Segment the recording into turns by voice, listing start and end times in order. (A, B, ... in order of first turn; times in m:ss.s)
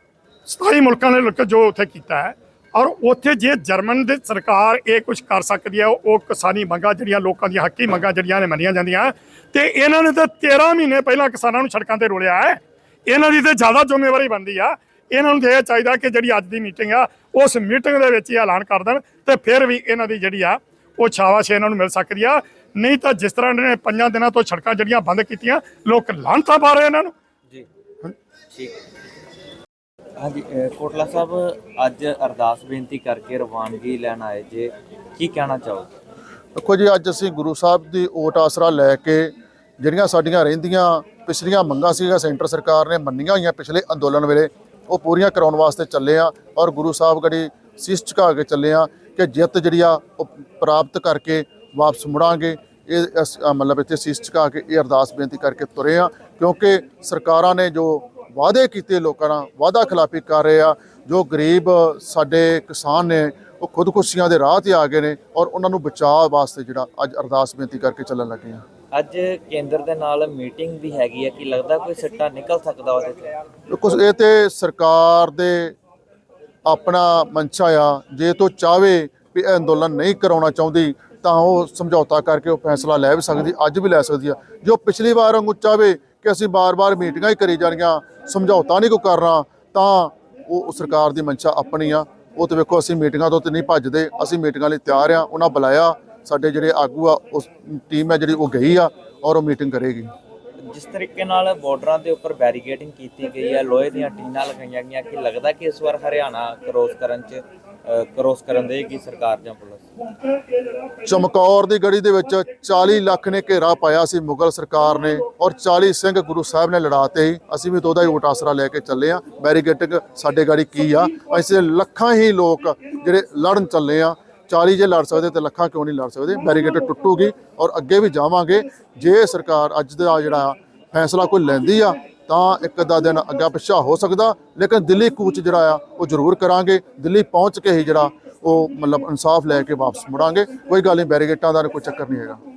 0:00.4-0:27.1 A
0:30.2-0:35.9 B
0:36.5-1:08.6 C
1:08.9-1:13.3 B
1:13.7-1:15.7 C
1:16.6-1:40.1 C
1:40.7-1:49.8 B
1:51.0-2:22.4 C